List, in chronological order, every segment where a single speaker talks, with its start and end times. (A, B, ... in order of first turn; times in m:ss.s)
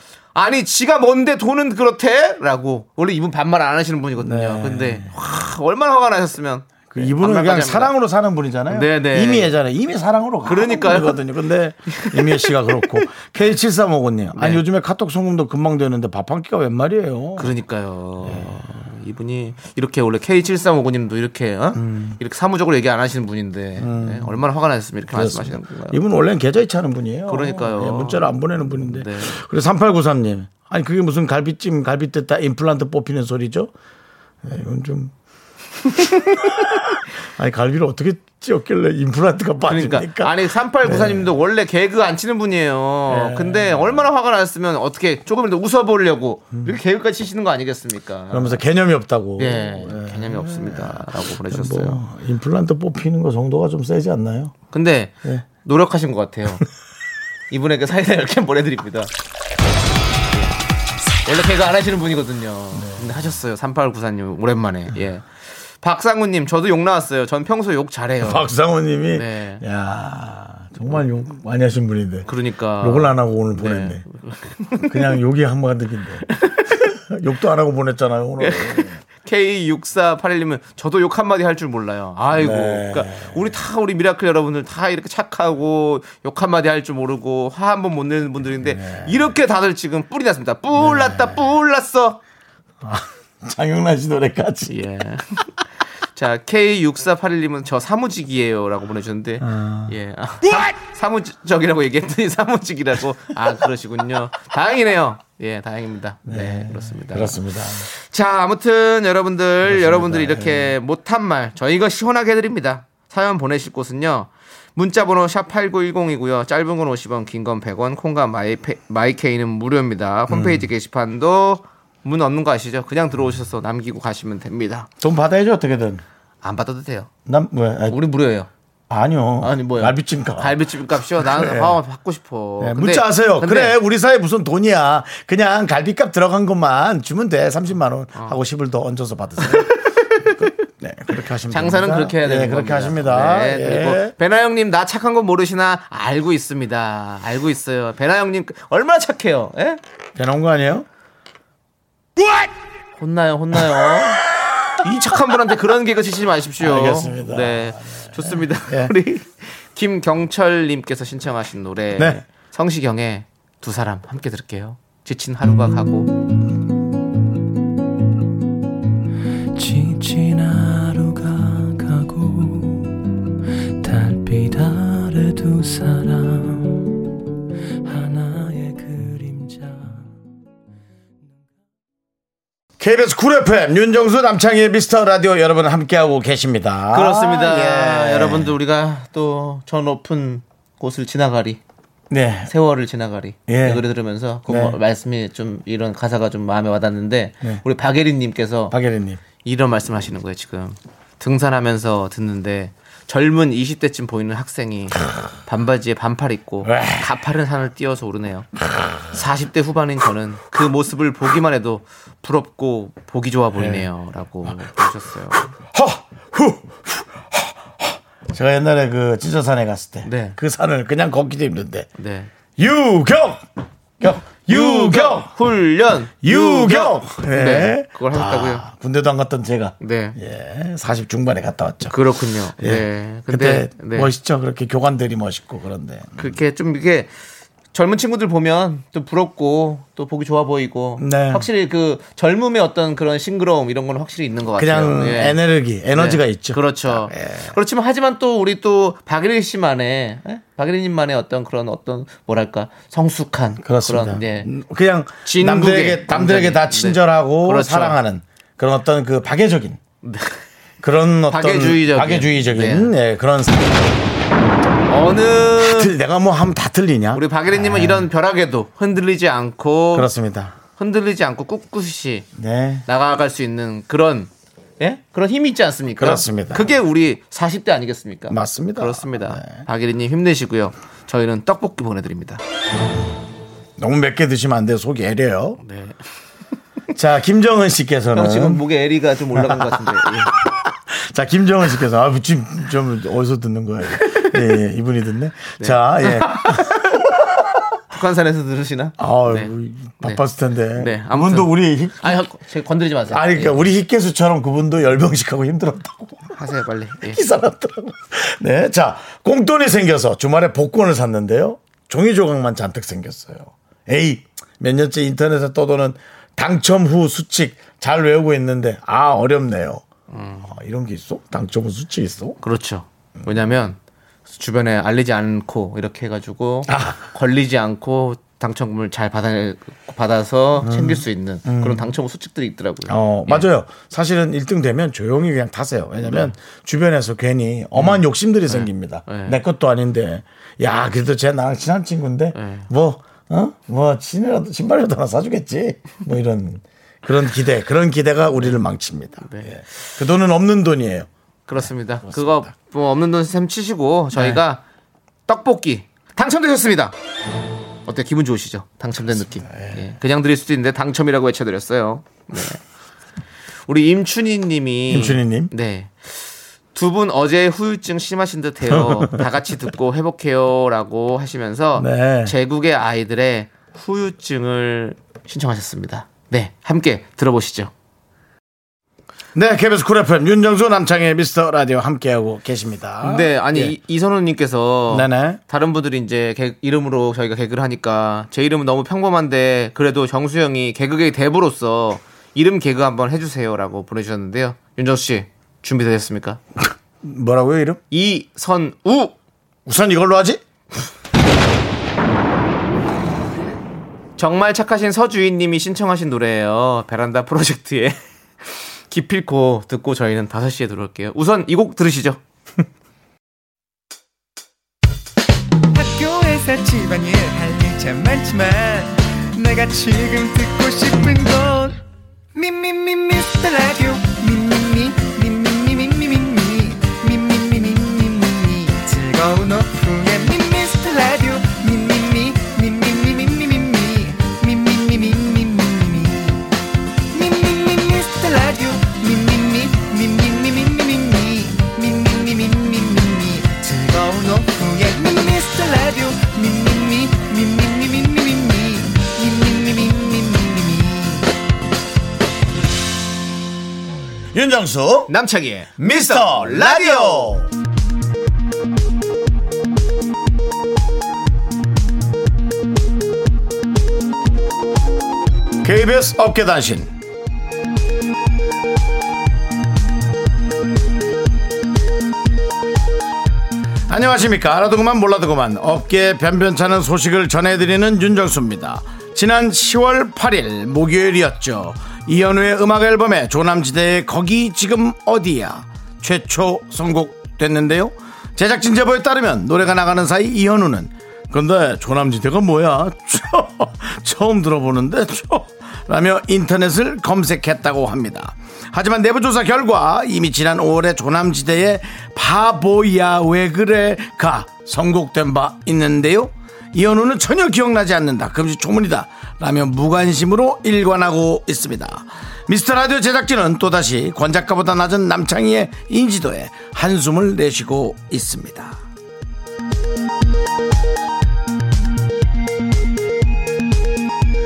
0:00.3-0:07.9 A
0:04.2-0:05.1 B
0:06.9-0:17.5 B
0:08.7-0:09.5 A
0:10.4-0:11.2 A
0:11.9-0:12.8 A
0:14.3-0:14.6 A
0:17.4-0:26.0 A
0:18.2-0:18.7 B
0:21.7-0:22.2 B
0:23.8-0:24.4 B
0:25.1-0:33.7 B
0:27.3-0:29.4 A
0:34.4-0:35.1 B
0:36.0-0:41.3 B
0:39.6-0:48.6 A
0:43.1-0:44.0 B
0:48.3-0:54.5 B
0:49.4-0:52.0 A
0:54.7-0:56.6 A
0:57.5-0:59.1 A
1:00.3-1:00.6 A
1:01.2-1:08.4 A
1:02.7-1:03.3 B
1:08.2-1:14.0 B
1:09.1-1:09.6 A
1:12.3-1:14.9 A
1:14.8-1:16.2 B
1:16.3-1:16.8 A
1:16.9-1:19.0 B
1:18.4-1:32.2 A
1:22.3-1:23.4 B
1:28.6-1:29.2 B
1:30.8-1:31.4 B
1:32.8-1:34.8 B
1:34.7-1:35.5 A
1:36.1-2:04.9 A
1:39.4-1:40.0 B
1:46.2-1:47.9 B
1:49.6-1:50.8 B
2:00.3-2:00.7 B
2:05.0-2:06.0 B
2:06.4-2:07.1 A
2:07.2-2:08.0 B
2:07.9-2:08.5 A
2:08.9-2:10.6 B
2:09.4-2:13.7 A
2:11.2-2:11.8 B
2:12.6-2:24.1 B
2:21.5-2:29.8 A
2:30.2-2:30.9 B
2:33.0-2:34.2 A
2:34.8-2:46.1 A
2:36.6-2:38.9 B
2:42.0-2:42.2 B
2:49.5-2:53.0 C
2:53.8-2:57.0 C
2:57.8-3:00.1 C
3:02.8-3:08.5 B
3:06.9-3:11.6 A
3:12.1-3:12.5 B
3:12.5-3:18.7 A
3:13.5-3:13.8 B
3:14.5-3:14.8 B
3:18.7-3:19.2 B
3:19.4-3:28.5 A
3:26.6-3:27.1 B
3:28.8-3:29.0 B
3:29.1-3:35.5 A
3:33.6-3:33.9 B
3:34.4-3:34.8 B
3:35.5-3:41.9 B
3:40.0-3:40.4 A
3:42.0-3:42.3 A
3:42.6-3:43.4 B
3:44.0-3:45.3 B
3:44.4-3:48.6 A
3:46.2-3:52.0 B
3:49.8-3:50.2 A
3:51.9-3:54.1 A
3:52.6-3:56.4 B
3:56.2-3:57.1 A
3:57.7-4:05.4 A
4:01.0-4:01.5 B
4:04.6-4:07.6 B
4:05.9-4:14.5 A
4:13.6-4:19.8 B
4:15.2-4:18.0 A
4:20.0-4:20.4 A
4:20.8-4:23.9 B
4:21.3-4:22.9 A
4:24.9-4:25.9 A
4:25.6-4:28.1 B
4:27.1-4:30.1 A
4:29.9-4:30.6 B
4:30.8-4:32.3 A
4:32.4-4:32.8 B
4:32.9-4:42.4 A
4:36.0-4:36.7 B
4:38.3-4:39.6 B
4:43.8-4:45.6 B
4:45.6-4:46.0 A
4:46.9-4:48.6 B
4:48.1-4:50.3 A
4:49.3-4:56.9 B
4:55.6-4:56.9 A
4:57.9-5:00.2 A
4:59.0-5:02.2 B
5:00.7-5:03.7 A
5:03.1-5:06.4 B
5:06.4-5:07.2 A
5:07.0-5:19.8 B
5:20.1-5:20.5 A
5:20.4-5:22.4 B
5:22.4-5:23.8 A
5:24.3-5:33.5 A
5:26.7-5:27.0 B
5:30.6-5:31.9 B
5:32.9-5:52.5 B
5:36.0-5:36.3 A
5:37.8-5:39.4 A
5:42.3-5:42.7 A
5:49.2-5:49.5 A
5:51.5-5:54.6 A
5:54.1-5:54.4 B
5:55.3-5:56.9 A
5:57.8-6:02.6 A
5:59.4-5:59.8 B
6:03.7-6:17.7 A
6:04.9-6:05.5 B
6:08.7-6:09.2 B
6:11.8-6:12.3 B
6:19.3-6:23.8 B
6:23.0-6:36.4 A
6:24.9-6:25.4 B
6:37.0-6:37.8 B
6:37.9-6:39.1 A
6:39.6-6:40.4 B
6:44.2-6:48.0 A
6:48.9-6:52.2 A
6:55.7-7:01.8 D
7:02.3-7:16.4 D
7:17.1-7:31.3 D
7:34.3-7:35.1 B
7:35.1-7:37.4 A
7:35.8-7:37.5 B
7:45.6-7:46.9 B
7:53.9-8:38.8 B